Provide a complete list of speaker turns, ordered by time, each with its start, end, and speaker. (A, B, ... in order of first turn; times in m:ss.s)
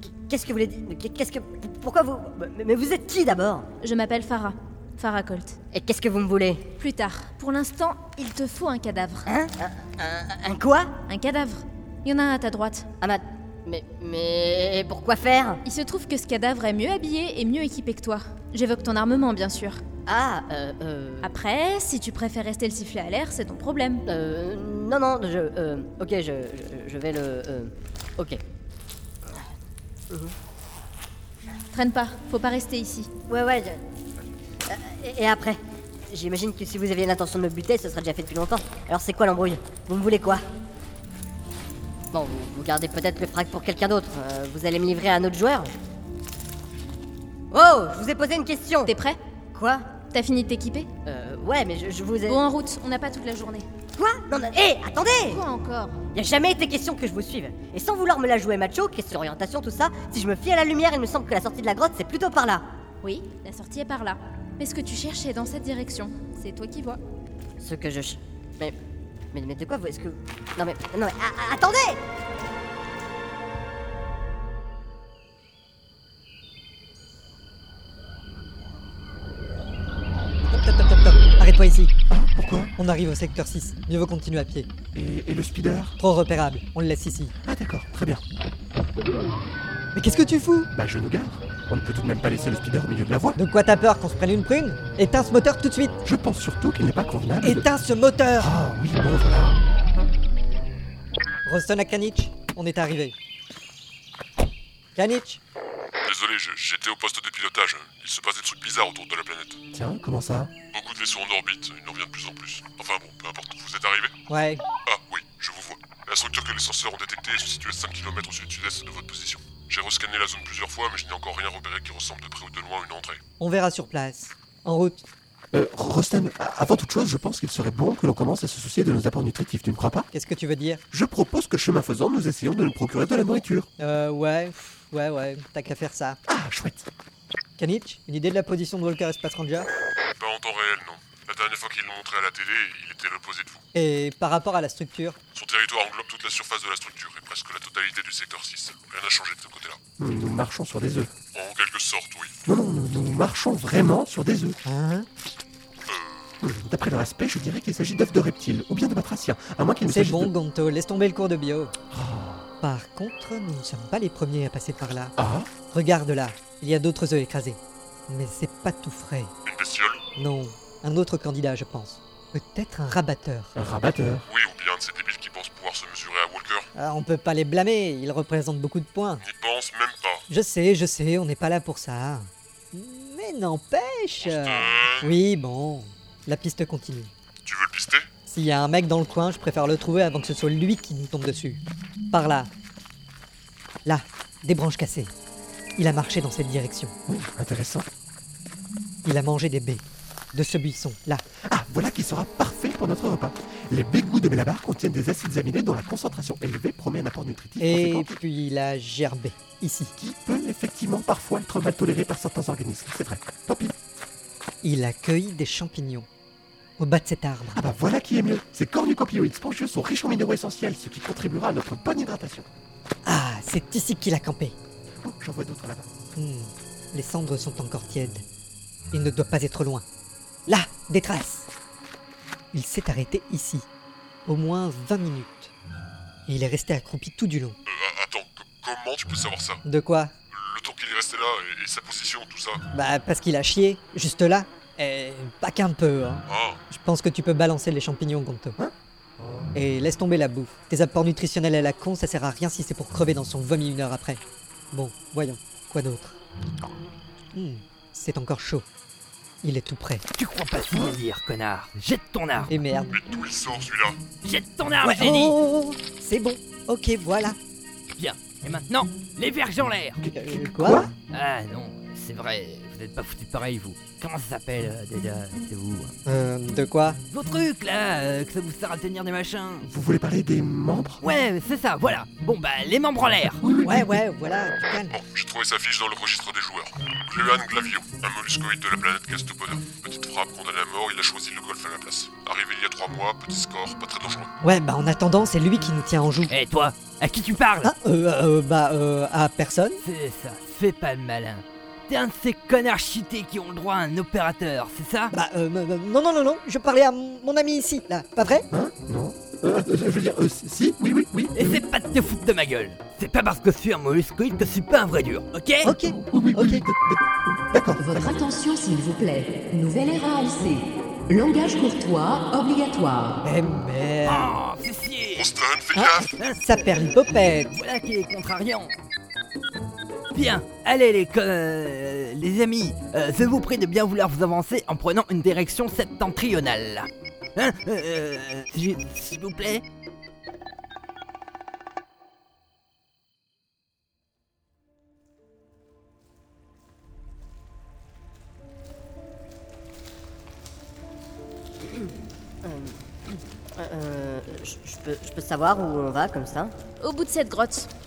0:00.3-0:03.7 A
0:03.8-0:05.6 B
0:05.7-0:06.6 A
0:06.8-0:09.3 B
0:09.3-0:10.9 A
0:11.1-0:12.9 B
0:13.0-0:15.6 A
0:15.6-0:19.8 B
0:20.0-0:21.3 A
0:21.2-0:24.0 B
0:24.1-0:28.4 A
0:30.1-0:30.3 A
0:31.7-0:33.1 B
0:33.3-0:33.8 A
0:34.7-0:40.4 A
0:42.1-0:45.7 A
0:47.5-0:48.9 A
0:48.8-0:49.2 B
0:49.5-0:49.8 A
0:50.1-0:50.9 B
0:51.0-0:52.4 A
0:52.2-0:53.6 B
0:54.0-0:55.4 A
0:55.3-0:56.0 B
0:56.1-1:02.6 A
1:03.0-1:07.0 B
1:07.6-1:08.7 A
1:09.3-1:12.0 A
1:20.4-1:21.9 C
1:22.1-1:22.7 D
1:22.8-1:24.7 C
1:24.9-1:26.0 D
1:26.0-1:27.3 C
1:27.4-1:28.2 D
1:29.9-1:30.7 C
1:30.7-1:33.4 D
1:33.3-1:36.0 C
1:36.0-1:37.6 D
1:37.4-1:38.5 C
1:38.4-1:39.6 D
1:41.4-1:43.1 C
1:44.9-1:45.4 C
1:46.0-1:49.6 E
1:49.7-1:50.5 D
1:50.7-1:54.1 E
1:54.3-1:54.6 C
1:54.9-2:03.2 E
2:03.4-2:05.0 C
2:05.5-2:10.1 D
2:10.1-2:10.8 C
2:10.9-2:13.7 D
2:13.8-2:16.2 C
2:16.3-2:16.9 D
2:17.6-2:19.7 C
2:20.2-2:23.6 E
2:23.7-2:25.2 C
2:25.3-2:29.8 E
2:30.0-2:31.1 D
2:31.3-2:32.3 E
2:32.4-2:34.6 D
2:34.6-2:35.1 C
2:35.9-2:36.4 E
2:36.4-2:40.3 D
2:39.8-2:41.7 C
2:41.9-2:42.5 D
2:42.6-2:45.1 C
2:45.2-2:45.5 D
2:45.7-2:49.3 C
2:49.4-2:50.0 E
2:50.2-2:53.6 C
2:53.6-2:54.2 D
2:54.3-2:56.7 E
2:56.7-2:59.2 C
2:59.2-3:00.2 E
3:00.3-3:07.1 C
3:04.2-3:05.2 E
3:07.4-3:08.1 E
3:08.3-3:12.5 C
3:13.8-3:15.1 C
3:15.8-3:16.9 C
3:17.0-3:17.9 D
3:19.0-3:21.2 C
3:21.4-3:28.2 D
3:27.6-3:29.9 C
3:30.0-3:33.7 D
3:34.6-3:36.1 C
3:36.8-3:37.6 C
3:37.5-3:42.5 D
3:43.0-3:44.6 C
3:45.0-3:45.9 D
3:46.1-3:48.2 C
3:48.9-3:49.8 C
3:50.5-3:51.5 C
3:52.5-3:53.7 C
3:54.2-3:55.5 C
3:56.3-3:57.6 C
3:57.6-3:59.6 E
3:59.6-4:00.1 C
4:00.3-4:02.6 E
4:02.7-4:08.6 C
4:06.3-4:06.6 E
4:09.5-4:14.2 C
4:14.7-4:16.2 C
4:17.3-4:18.6 C
4:19.4-4:20.0 C
4:20.1-4:22.5 F
4:22.5-4:22.9 C
4:22.9-4:24.0 E
4:24.2-4:25.4 F
4:24.8-4:27.4 C
4:28.0-4:30.0 F
4:30.0-4:30.9 D
4:30.1-4:30.9 C
4:31.1-4:35.9 F
4:36.0-4:37.0 C
4:37.1-4:39.7 F
4:39.6-4:41.0 D
4:41.0-4:43.4 F
4:43.4-4:43.9 D
4:43.6-4:45.0 C
4:44.9-4:54.3 E
4:54.4-4:56.3 C
4:56.3-4:57.7 F
4:57.6-4:59.8 C
4:59.8-5:05.1 F
5:05.1-5:08.4 C
5:08.5-5:11.6 D
5:11.3-5:15.7 F
5:15.6-5:16.6 C
5:15.8-5:18.2 D
5:17.8-5:23.2 G
5:23.2-5:24.3 C
5:24.0-5:25.3 F
5:25.1-5:26.1 E
5:25.8-5:27.5 C
5:26.2-5:26.9 F
5:27.5-5:28.7 F
5:30.1-5:39.6 F
5:51.6-5:51.9 A
5:52.4-5:56.5 A
5:56.8-5:57.7 B